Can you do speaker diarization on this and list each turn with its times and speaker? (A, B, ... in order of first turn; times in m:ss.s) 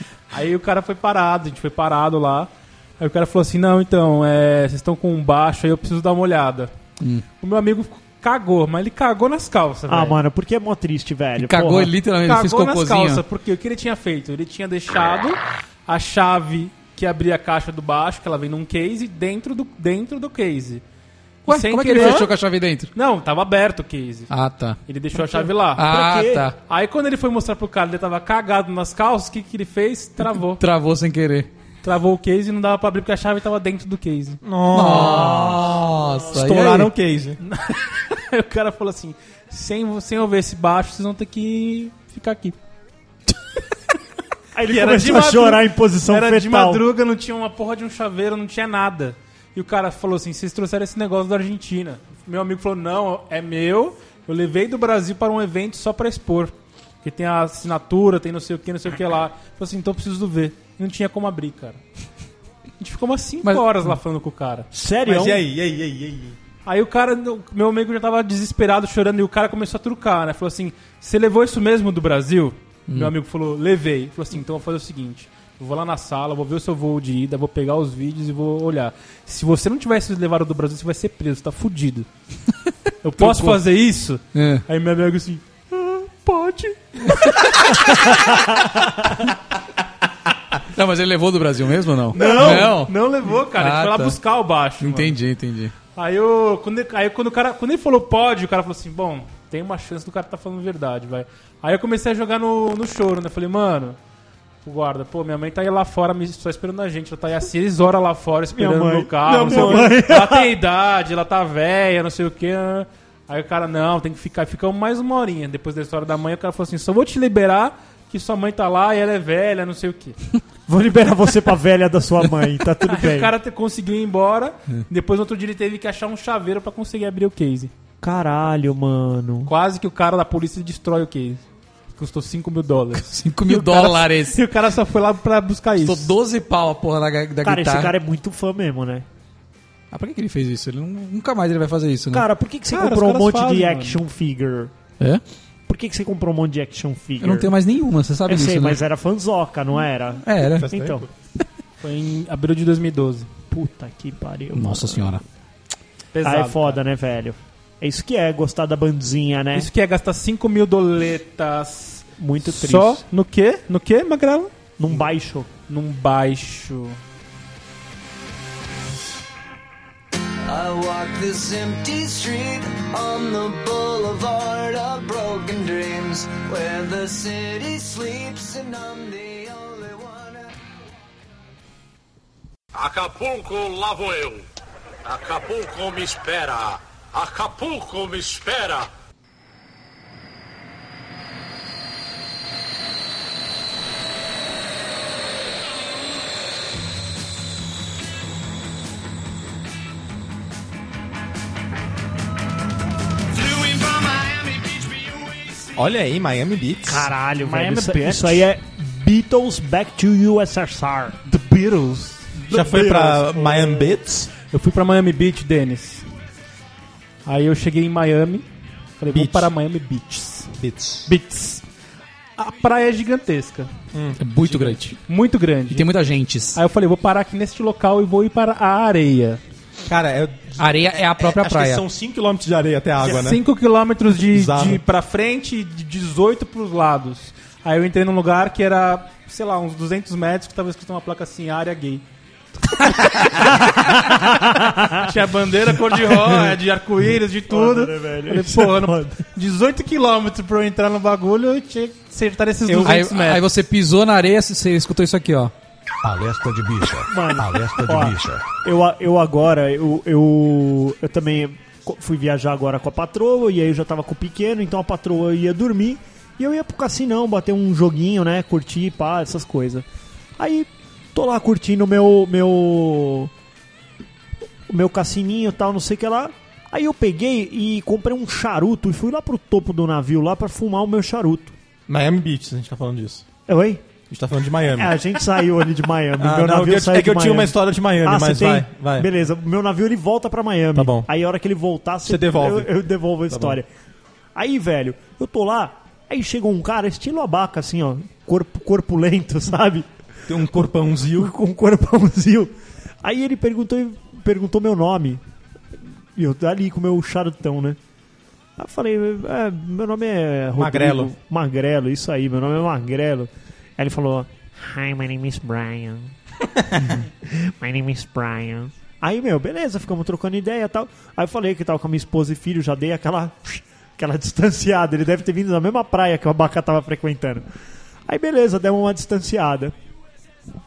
0:00.3-0:06.7 A
0:07.4-0:10.2 A
0:09.9-0:11.9 B
0:11.4-0:13.2 C
0:12.2-0:20.8 A
0:21.4-0:22.3 A
0:21.5-0:22.9 C
0:22.9-0:24.3 A
0:24.3-0:24.8 C
0:24.9-0:25.8 A
0:25.2-0:26.4 B
0:25.7-0:26.6 C
0:26.6-0:30.6 A
0:30.6-0:31.5 C
0:31.8-0:34.4 A
0:34.4-0:37.4 D
0:34.7-0:36.9 C
0:37.4-0:42.6 A
0:44.5-0:46.8 B
0:44.6-1:01.8 A
1:02.8-1:04.7 A
1:04.7-1:05.4 B
1:05.0-1:06.4 D
1:06.6-1:22.1 A
1:12.9-1:13.1 C
1:23.0-1:27.6 A
1:23.2-1:23.6 C
1:24.3-1:24.6 C
1:30.6-1:34.2 C
1:32.1-1:35.1 A
1:32.2-1:32.6 B
1:34.8-1:35.7 C
1:36.0-1:44.0 A
1:44.6-2:00.2 A
1:48.5-1:50.5 B
1:49.2-1:50.0 D
2:00.7-2:03.3 B
2:02.8-2:07.7 A
2:08.0-2:09.5 B
2:09.4-2:11.4 A
2:11.9-2:16.1 A
2:12.9-2:14.4 C
2:15.8-2:17.9 C
2:17.4-2:19.0 B
2:19.9-2:22.3 C
2:22.1-2:24.7 B
2:22.7-2:24.0 A
2:25.7-2:27.5 B
2:27.2-2:28.8 C
2:28.3-2:31.0 B
2:30.2-2:30.7 C
2:30.4-2:31.1 D
2:31.8-2:33.3 A
2:33.5-2:35.2 B
2:34.5-2:35.2 C
2:36.1-2:36.8 A
2:36.2-2:39.7 B
2:39.5-2:45.1 A
2:42.2-2:43.0 B
2:44.8-2:45.5 B
2:45.7-2:47.0 A
2:50.5-3:00.5 E
3:02.7-3:04.5 F
3:05.0-3:08.9 F
3:23.5-3:24.4 A
3:25.7-3:27.1 D
3:26.8-3:31.2 B
3:27.4-3:28.5 A
3:31.2-3:33.8 A
3:32.5-3:33.5 B
3:32.5-3:34.3 D
3:34.4-3:36.1 A
3:37.2-3:38.5 A
3:39.0-3:41.6 A
3:39.1-3:39.5 D
3:40.6-3:41.1 D
3:42.4-3:43.7 A
3:43.9-3:44.2 D
3:44.2-3:45.0 C
3:44.5-3:45.8 A
3:45.7-3:46.6 C
3:46.5-3:49.4 A
3:49.8-3:53.4 D
3:50.6-3:51.8 C
3:53.0-4:02.0 A
3:54.3-3:54.8 D
4:02.6-4:13.4 A
4:04.2-4:05.0 B
4:07.5-4:09.2 B
4:12.6-4:13.0 D
4:12.8-4:15.5 C
4:16.0-4:18.5 G
4:17.1-4:29.8 B
4:30.4-4:33.3 B
4:34.7-4:41.5 B
4:41.9-4:43.2 D
4:43.5-4:43.8 B
4:44.1-4:45.1 D
4:44.7-4:53.7 B
4:46.2-4:49.1 D
4:50.7-4:51.1 D
4:52.0-4:52.7 D
4:53.3-4:53.6 D
4:54.3-4:59.9 B
5:00.3-5:01.3 D
5:01.1-5:05.2 B
5:06.2-5:07.8 B
5:08.6-5:16.1 B
5:10.6-5:11.1 D
5:16.8-5:27.5 B
5:28.1-5:29.7 B